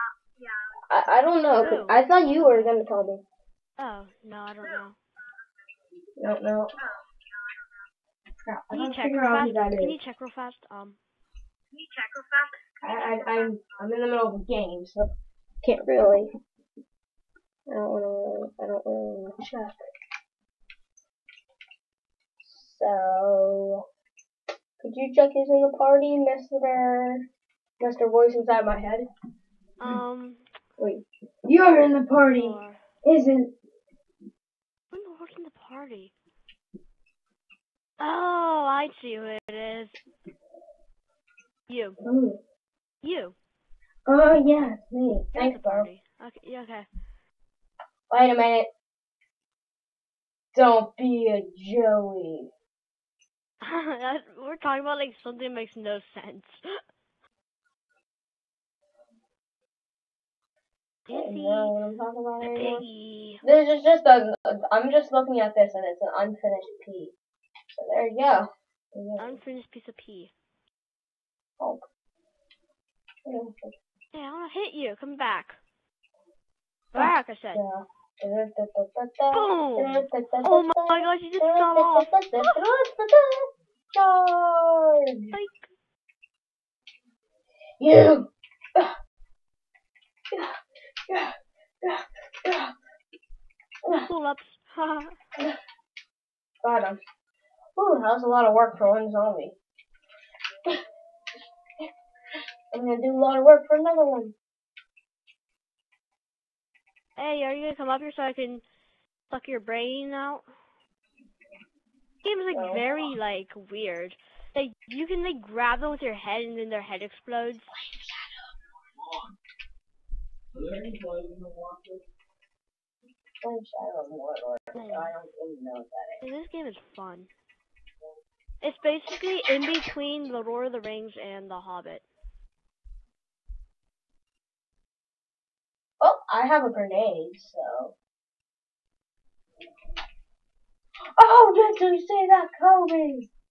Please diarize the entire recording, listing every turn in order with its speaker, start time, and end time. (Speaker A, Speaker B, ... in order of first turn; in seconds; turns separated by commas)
Speaker A: 0.9-3.2, Speaker B: 1.6-2.7, Speaker B: 3.8-5.0, Speaker A: 6.2-6.7, Speaker A: 8.4-9.9, Speaker B: 8.7-11.0, Speaker A: 12.8-15.1, Speaker A: 15.6-16.3, Speaker A: 17.7-19.8, Speaker A: 22.4-23.8, Speaker A: 24.8-27.2, Speaker A: 27.8-29.1, Speaker B: 29.8-30.4, Speaker A: 30.8-33.5, Speaker B: 32.4-32.8, Speaker B: 34.9-36.1, Speaker B: 38.0-40.0, Speaker B: 41.7-42.0, Speaker A: 42.0-42.4, Speaker B: 43.0-43.4, Speaker A: 44.1-45.9, Speaker B: 45.3-46.9, Speaker A: 48.1-48.7, Speaker A: 50.5-52.5, Speaker B: 53.6-56.6, Speaker B: 61.1-61.8, Speaker A: 61.1-62.8, Speaker B: 62.4-63.4, Speaker A: 63.4-67.1, Speaker A: 67.7-69.4, Speaker B: 69.2-70.3, Speaker A: 73.2-73.8, Speaker B: 74.1-75.6, Speaker B: 76.9-77.6, Speaker A: 77.0-85.3, Speaker B: 79.3-82.6, Speaker B: 85.3-85.7, Speaker A: 87.8-88.9, Speaker A: 91.1-92.7, Speaker B: 94.1-95.1, Speaker A: 96.6-97.0, Speaker A: 97.8-99.6, Speaker A: 102.7-104.3, Speaker B: 107.2-108.6, Speaker B: 109.3-110.4, Speaker B: 112.2-117.7, Speaker A: 112.5-112.9, Speaker A: 117.6-118.4, Speaker A: 123.4-126.3, Speaker B: 124.7-125.1, Speaker B: 126.2-127.3, Speaker B: 128.6-132.0, Speaker A: 136.0-137.9, Speaker A: 141.2-143.3